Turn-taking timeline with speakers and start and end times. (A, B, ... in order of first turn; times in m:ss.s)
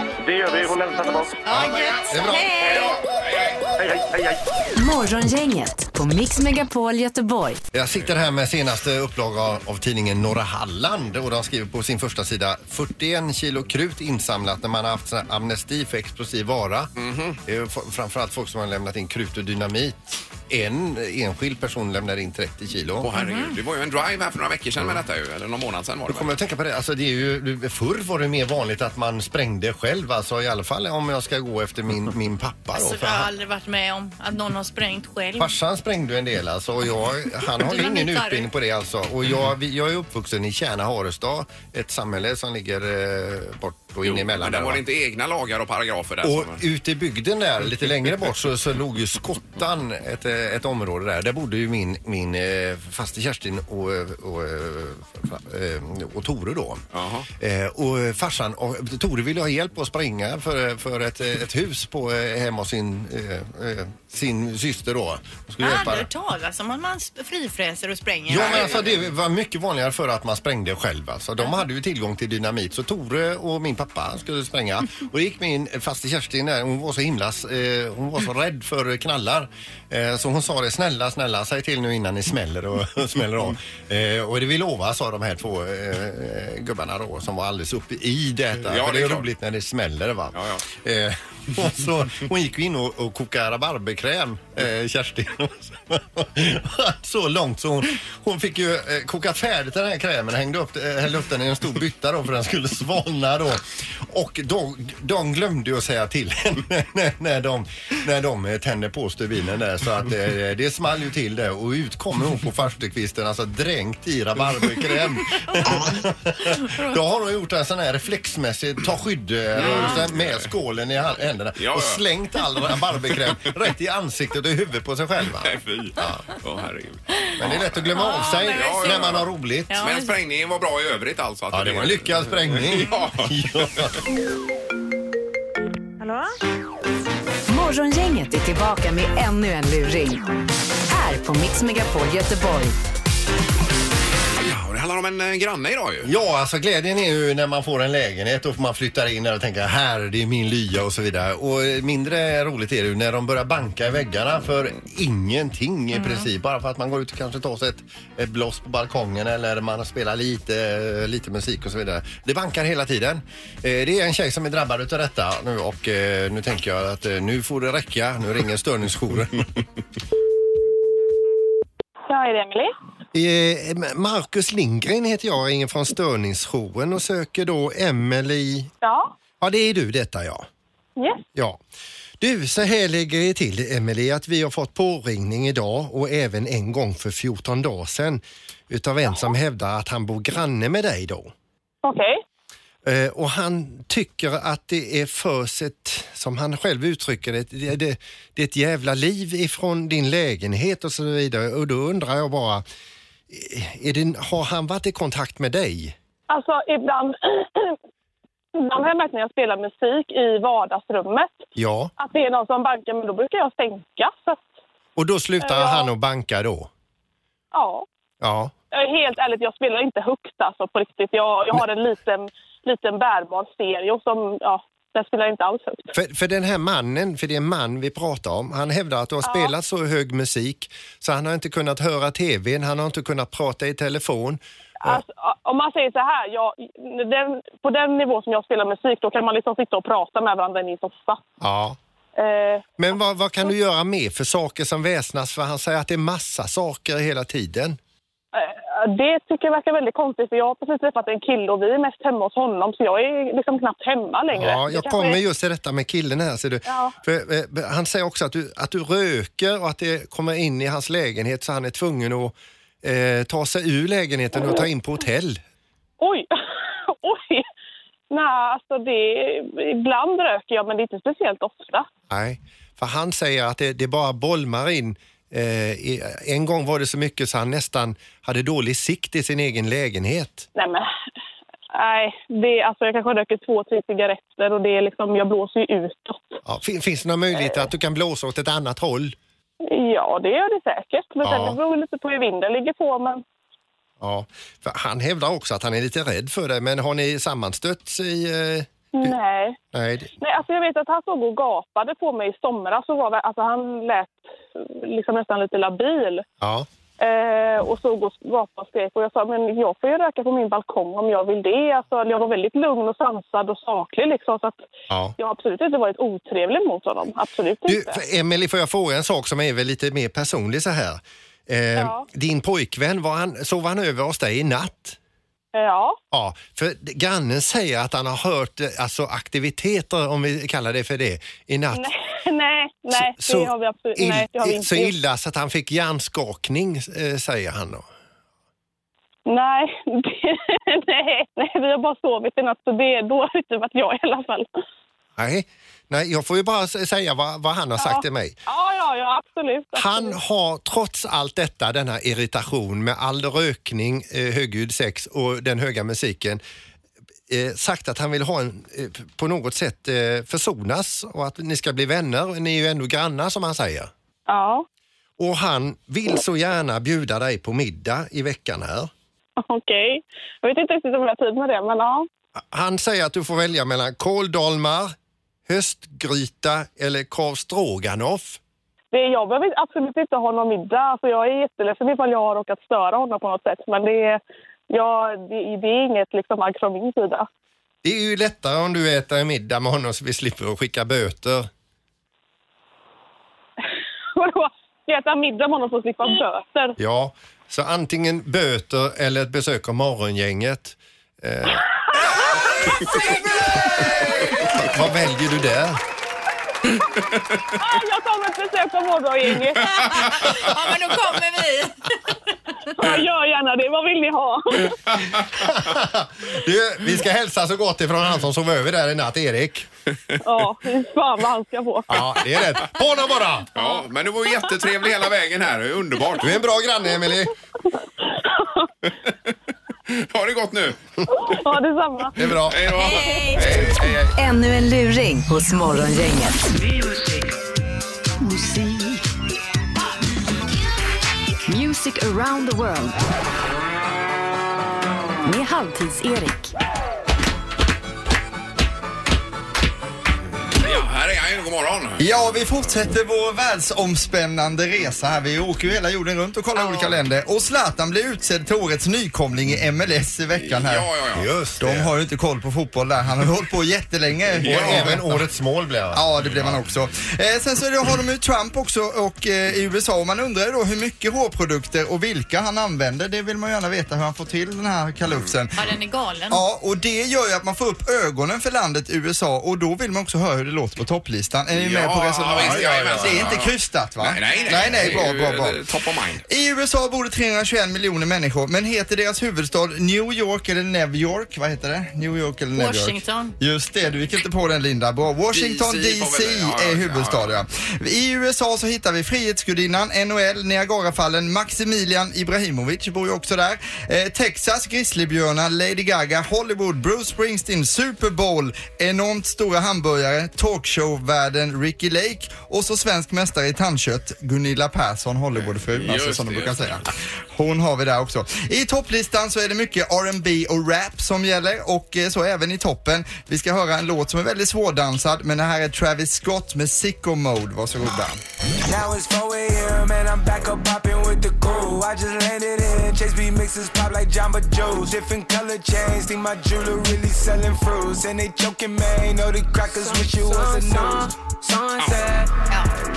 0:00.2-0:01.4 A
0:01.4-0:02.9 B
0:01.5-0:03.6 C
0:02.1-0:02.5 D
0:03.8-0:04.4 A
0:04.8-0:07.6 E
0:07.7-0:16.9 D
0:17.0-0:17.4 C
0:17.4-0:23.1 D
0:23.0-0:26.3 C
0:23.1-0:23.5 B
0:26.1-0:33.3 D
0:32.7-0:35.5 B
0:35.4-0:44.8 D
0:37.5-0:38.5 B
0:44.0-0:46.6 C
0:46.2-0:56.8 D
0:56.9-0:57.3 C
0:57.4-1:06.1 D
1:05.6-1:08.9 B
1:08.3-2:06.2 D
1:28.6-1:29.3 C
1:30.3-1:30.6 C
1:55.5-1:55.9 B
1:56.5-1:57.0 B
1:59.5-2:00.5 C
1:59.6-2:00.0 B
2:01.6-2:02.0 C
2:05.4-2:09.3 C
2:07.4-2:09.8 D
2:07.9-2:09.1 B
2:09.7-2:10.1 B
2:09.8-2:13.9 C
2:11.5-2:14.0 D
2:17.5-2:20.2 E
2:20.9-2:22.8 E
2:24.4-2:26.1 C
2:26.0-2:49.6 D
2:35.9-2:36.3 B
2:52.1-2:52.7 F
2:53.1-2:58.7 D
2:58.8-2:59.1 F
2:59.4-3:00.5 D
3:01.0-3:01.2 F
3:02.2-3:11.3 D
3:11.8-3:12.2 F
3:12.8-3:22.6 D
3:23.3-3:26.0 D
3:26.3-3:27.8 F
3:28.5-3:31.4 F
3:31.6-3:31.9 D
3:32.0-3:34.4 F
3:35.0-3:36.7 D
3:35.4-3:35.9 F
3:37.5-3:37.8 F
3:38.2-3:38.5 D
3:38.7-3:45.9 F
3:45.9-3:55.0 D
3:49.2-3:49.5 F
3:54.8-4:01.2 F
4:01.4-4:01.8 D
4:02.2-4:02.7 F
4:02.8-4:07.8 D
4:08.3-4:15.2 F
4:14.3-4:25.4 D
4:16.7-4:16.9 F
4:26.0-4:26.3 F
4:26.8-4:27.4 F
4:28.1-4:31.9 F
4:32.1-4:40.4 D
4:40.6-4:40.9 F
4:41.7-4:46.4 F
4:46.4-4:49.2 D
4:49.7-4:53.2 F
4:51.2-4:51.6 D
4:54.0-4:59.2 D
4:58.9-4:59.6 F
4:59.7-5:00.1 D
5:00.2-5:06.2 F
5:06.4-5:06.7 D
5:07.0-5:14.7 F
5:14.9-5:15.2 D
5:15.2-5:18.0 F
5:17.6-5:25.0 D
5:21.8-5:22.0 F
5:25.5-5:26.0 F
5:26.1-5:31.9 D
5:31.7-5:34.9 F
5:32.9-5:37.8 D
5:39.3-5:44.5 F
5:45.2-5:48.4 D
5:47.8-5:50.2 F
5:49.7-5:56.4 D
5:57.3-6:03.9 D
6:04.3-6:04.6 F
6:05.2-6:08.9 D
6:09.4-6:12.1 F
6:12.5-6:14.9 D
6:15.5-6:18.4 D
6:18.9-6:27.3 F
6:27.8-6:31.5 D
6:34.1-6:36.8 F
6:36.8-6:41.6 D
6:42.6-6:43.1 D
6:43.8-6:44.6 C
6:43.8-6:45.8 D
6:47.6-6:50.2 F
6:49.6-6:51.8 B
6:52.7-6:54.8 F
6:55.3-6:59.7 D
7:00.2-7:01.9 F
7:01.9-7:03.5 D
7:03.5-7:06.3 C
7:06.2-7:07.3 D
7:08.1-7:08.6 F
7:09.9-7:10.8 C
7:11.1-7:12.1 F
7:12.2-7:12.7 D
7:12.5-7:14.0 C
7:12.8-7:13.6 E
7:13.5-7:13.8 D
7:14.1-7:16.5 E
7:18.2-7:19.0 E
7:21.5-7:23.0 E
7:25.2-7:26.5 E
7:30.6-7:32.0 C
7:32.0-7:40.9 G
7:36.6-7:36.9 B
7:40.4-7:41.3 C
7:41.1-7:41.9 D
7:41.6-7:45.2 G
7:44.4-7:45.0 C
7:44.4-7:46.1 D
7:45.9-7:55.6 G
7:46.2-7:46.6 C
7:55.6-7:56.4 B
7:56.3-8:05.6 G
8:01.5-8:06.2 C
8:02.3-8:03.2 D
8:04.3-8:04.7 B
8:06.3-8:48.2 G
8:12.5-8:13.3 B
8:15.3-8:17.4 C
8:35.3-8:36.8 C
8:48.6-9:02.3 H